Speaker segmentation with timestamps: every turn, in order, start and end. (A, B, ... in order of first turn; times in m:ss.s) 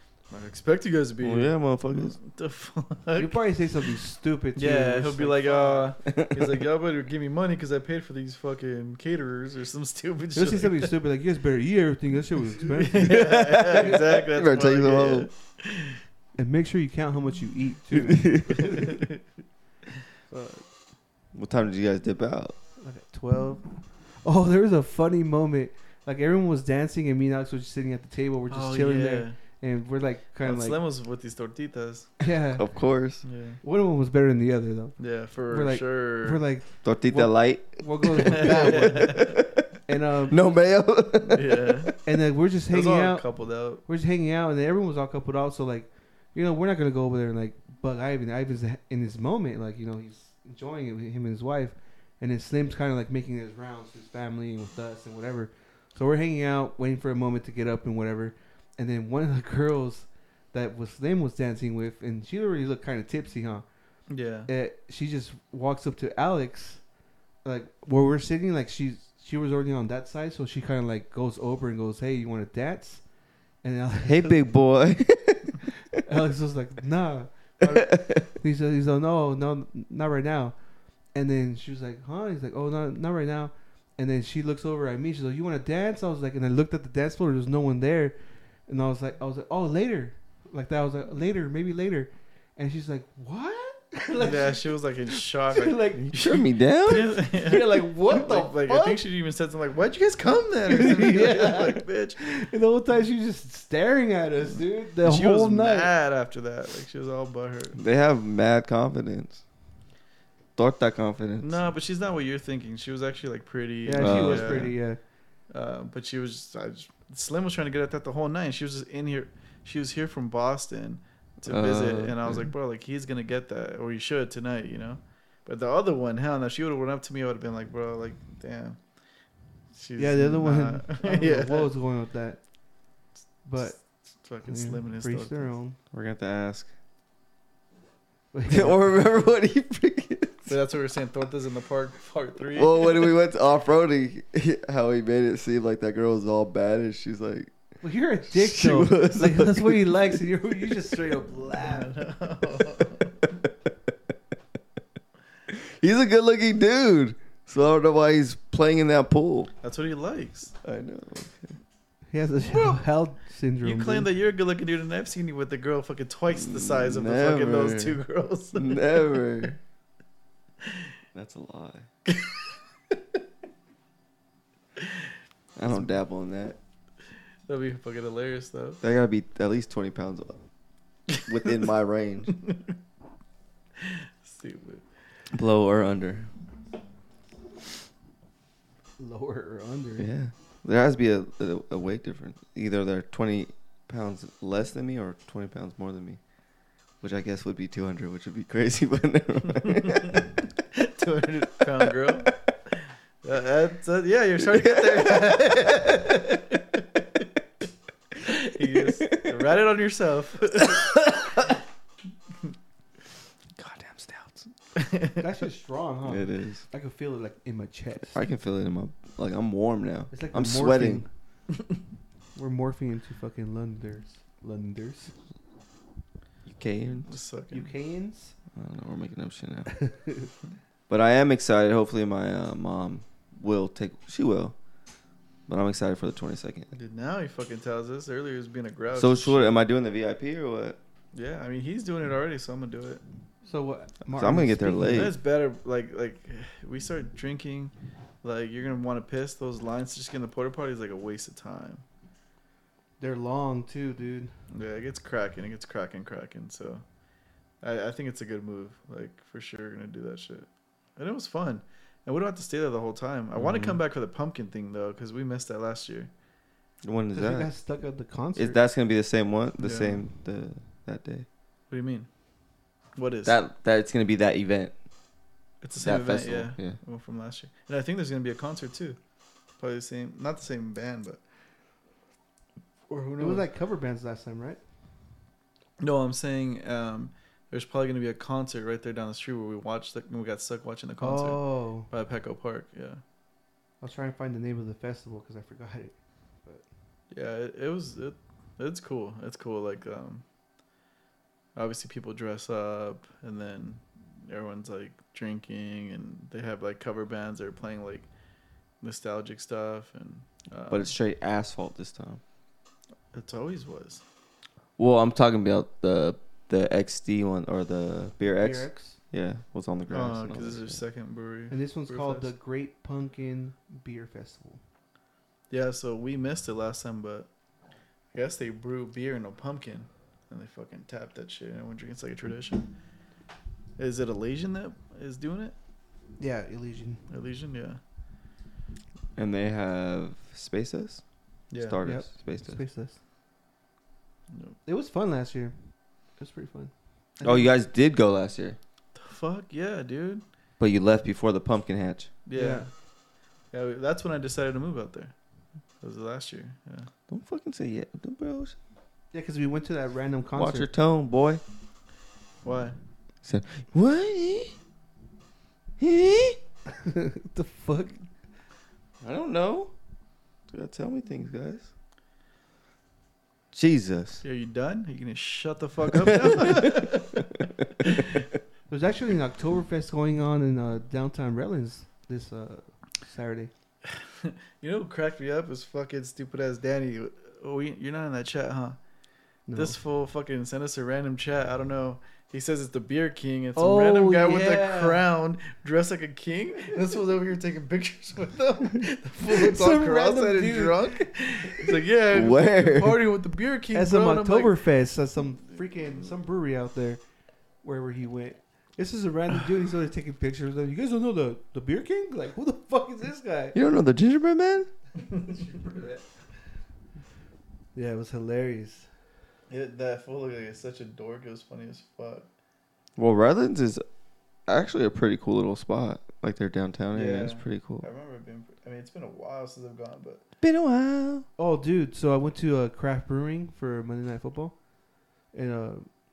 0:00.3-0:03.4 A
0:01.2-0:02.2 B
0:03.2-0:05.9 C
0:04.6-0:10.9 A
0:06.0-0:06.6 B
0:10.3-0:13.3 C
0:12.6-0:16.0 A
0:13.0-0:15.3 B
0:16.4-0:19.0 C
0:17.9-0:18.8 B
0:18.6-0:19.2 A
0:20.3-0:20.6 C
0:21.3-0:22.6 B
0:22.8-0:30.8 C
0:28.5-0:29.4 A
0:30.4-0:32.1 A
0:32.2-0:32.7 C
0:32.6-0:33.2 B
0:33.2-0:33.6 A
0:33.6-0:35.0 C
0:35.0-0:36.4 A
0:35.5-0:39.3 C
0:36.8-0:39.6 B
0:38.2-0:39.3 A
0:39.9-0:40.5 C
0:40.3-0:41.9 B
0:41.2-0:42.0 A
0:42.0-0:43.3 C
0:42.7-0:43.8 A
0:43.8-1:03.6 C
1:04.1-1:04.5 A
1:04.5-1:06.8 C
1:07.4-1:13.0 C
1:13.6-1:14.4 C
1:14.0-1:15.6 B
1:16.0-1:20.6 C
1:17.7-1:18.2 B
1:21.1-1:36.2 C
1:34.2-1:42.2 A
1:36.1-1:37.2 B
1:36.9-1:39.0 C
1:40.7-1:45.9 C
1:45.0-1:47.8 A
1:47.7-1:49.4 B
1:50.6-1:51.6 B
1:51.4-1:54.8 A
1:53.8-1:55.0 C
1:54.0-1:54.7 B
1:55.5-2:08.8 A
2:01.4-2:02.5 B
2:09.7-2:11.7 A
2:10.0-2:12.4 C
2:13.4-2:13.8 C
2:14.2-2:15.5 A
2:14.4-2:15.8 C
2:15.9-2:16.7 B
2:18.3-2:18.8 C
2:18.5-2:20.5 B
2:20.5-2:23.1 A
2:22.5-2:27.5 B
2:27.8-2:31.9 C
2:28.3-2:30.2 B
2:31.6-2:33.3 A
2:35.5-2:39.5 B
2:39.6-2:40.5 A
2:40.6-2:41.6 B
2:42.1-2:44.1 C
2:42.5-2:42.8 A
2:43.6-2:48.8 A
2:46.3-2:48.0 B
2:48.5-2:49.6 B
2:51.1-2:51.8 B
2:52.1-2:52.4 A
2:55.6-2:56.6 B
2:57.5-2:58.8 A
2:58.8-3:00.4 B
3:01.2-3:01.6 A
3:01.2-3:02.4 B
3:02.3-3:02.6 A
3:03.8-3:04.8 A
3:05.3-3:06.3 B
3:09.0-3:10.1 C
3:10.0-3:16.2 B
3:17.0-3:20.3 B
3:19.6-3:22.3 A
3:21.8-3:22.3 B
3:23.2-3:26.8 A
3:24.4-3:25.8 B
3:28.2-3:31.5 A
3:29.0-3:29.4 B
3:30.8-3:31.2 B
3:33.6-3:34.5 B
3:34.7-3:35.2 A
3:35.2-3:38.2 C
3:36.0-3:36.6 B
3:38.1-3:41.0 B
3:40.1-3:41.1 C
3:42.3-3:45.1 C
3:46.4-3:47.2 B
3:47.1-3:47.7 A
3:47.5-3:48.3 C
3:48.5-3:49.7 B
3:49.7-3:50.3 C
3:50.9-3:54.5 B
3:55.5-3:56.7 B
3:56.7-3:59.5 A
3:58.9-4:00.8 B
4:01.1-4:03.0 A
4:03.4-4:05.1 C
4:04.1-4:05.1 B
4:04.9-4:11.8 A
4:13.0-4:14.3 C
4:14.5-4:16.8 A
4:17.6-4:26.1 A
4:23.3-4:23.8 B
4:26.8-4:27.5 B
4:27.1-4:28.6 C
4:28.4-4:31.2 B
4:29.6-4:30.0 A
4:31.7-4:32.1 A
4:33.0-4:33.4 A
4:33.2-4:34.7 B
4:35.6-4:39.0 A
4:35.8-4:36.8 B
4:39.6-4:41.2 A
4:42.9-4:43.4 A
4:43.2-4:44.6 C
4:45.8-4:53.0 A
4:51.0-4:51.9 C
4:53.8-4:56.6 C
4:57.1-5:00.2 A
5:01.6-5:08.1 A
5:08.8-5:10.9 A
5:10.7-5:12.2 B
5:13.1-5:14.0 A
5:14.8-5:20.8 B
5:18.2-5:19.0 C
5:19.9-5:22.3 A
5:21.5-5:24.6 C
5:25.5-5:27.3 A
5:28.1-5:32.7 A
5:33.8-5:35.5 A
5:36.2-5:37.0 C
5:37.1-5:37.8 A
5:39.2-5:41.0 B
5:41.5-5:41.8 A
5:41.6-5:42.6 B
5:41.8-5:43.0 C
5:44.3-5:44.6 A
5:44.6-5:45.5 C
5:46.2-5:47.4 C
5:47.2-5:48.6 B
5:48.9-5:50.2 A
5:50.6-5:52.1 B
5:52.2-5:52.7 A
5:52.3-5:52.7 C
5:53.5-5:55.1 A
5:55.8-5:56.9 A
5:57.1-5:58.6 B
5:59.1-6:00.7 C
6:00.3-6:01.4 B
6:02.4-6:02.8 A
6:03.2-6:04.5 B
6:05.8-6:06.4 B
6:06.8-6:08.0 C
6:09.0-6:09.7 B
6:10.5-6:11.7 B
6:13.5-6:14.2 B
6:14.2-6:17.2 A
6:16.0-6:16.7 B
6:18.7-6:23.5 C
6:23.9-6:28.8 A
6:29.5-6:29.8 C
6:29.5-6:44.6 A
6:33.6-6:35.0 C
6:39.2-6:41.0 C
6:42.1-6:43.0 B
6:43.7-6:47.0 C
6:47.6-6:53.6 C
6:53.5-6:54.7 B
6:55.2-6:55.5 A
6:55.4-6:56.0 C
6:57.7-6:58.9 C
6:59.5-7:02.3 A
7:03.0-7:03.8 B
7:04.5-7:07.8 B
7:06.9-7:10.2 A
7:10.4-7:11.2 B
7:11.4-7:14.6 C
7:15.3-7:15.9 C